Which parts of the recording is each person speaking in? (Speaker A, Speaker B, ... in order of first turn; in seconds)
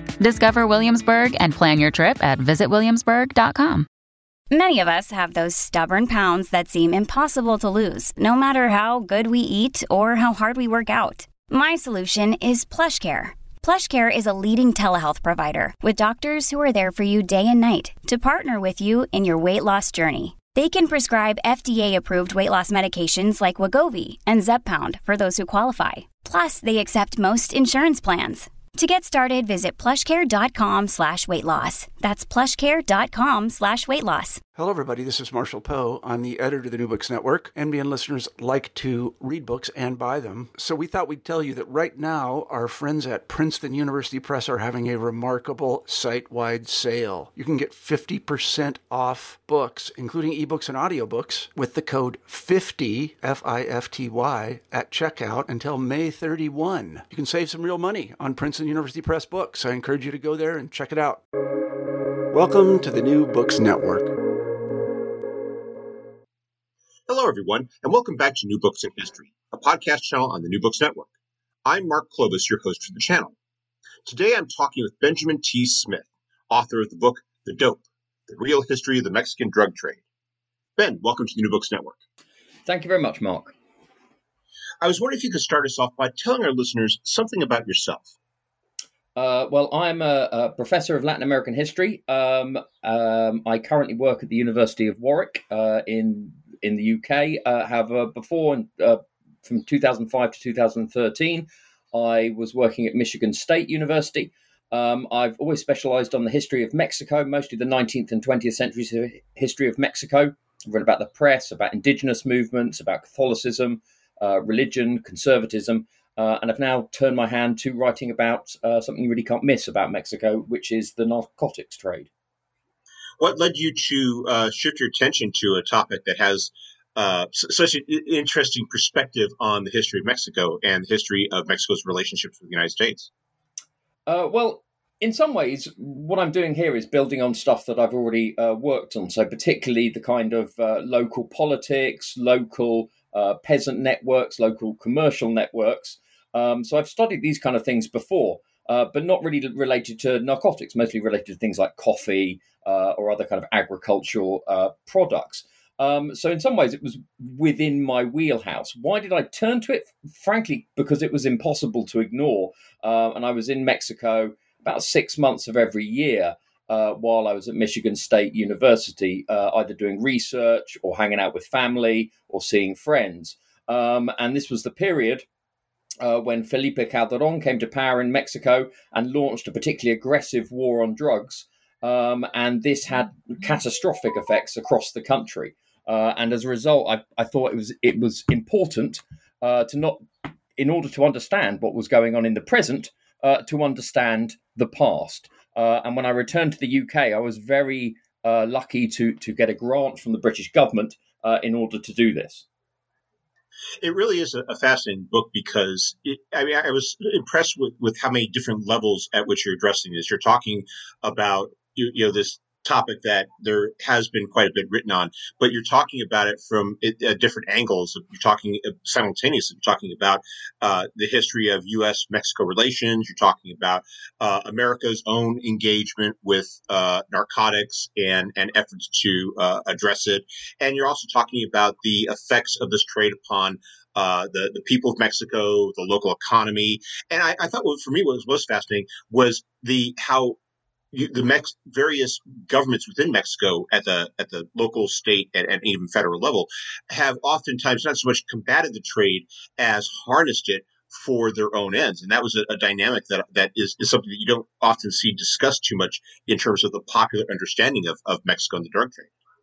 Speaker A: 0.2-3.9
Speaker B: 4.5-34.4
Speaker C: 34.5-61.2, 62.3-64.1
Speaker D: 67.1-71.1, 71.7-73.3, 74.0-80.0, 80.8-82.0, 84.8-88.1, 123.2-133.1, 203.8-240.4, 240.9-259.1
Speaker E: 82.7-83.5, 89.2-122.1, 134.1-175.2, 176.0-190.0, 190.6-202.4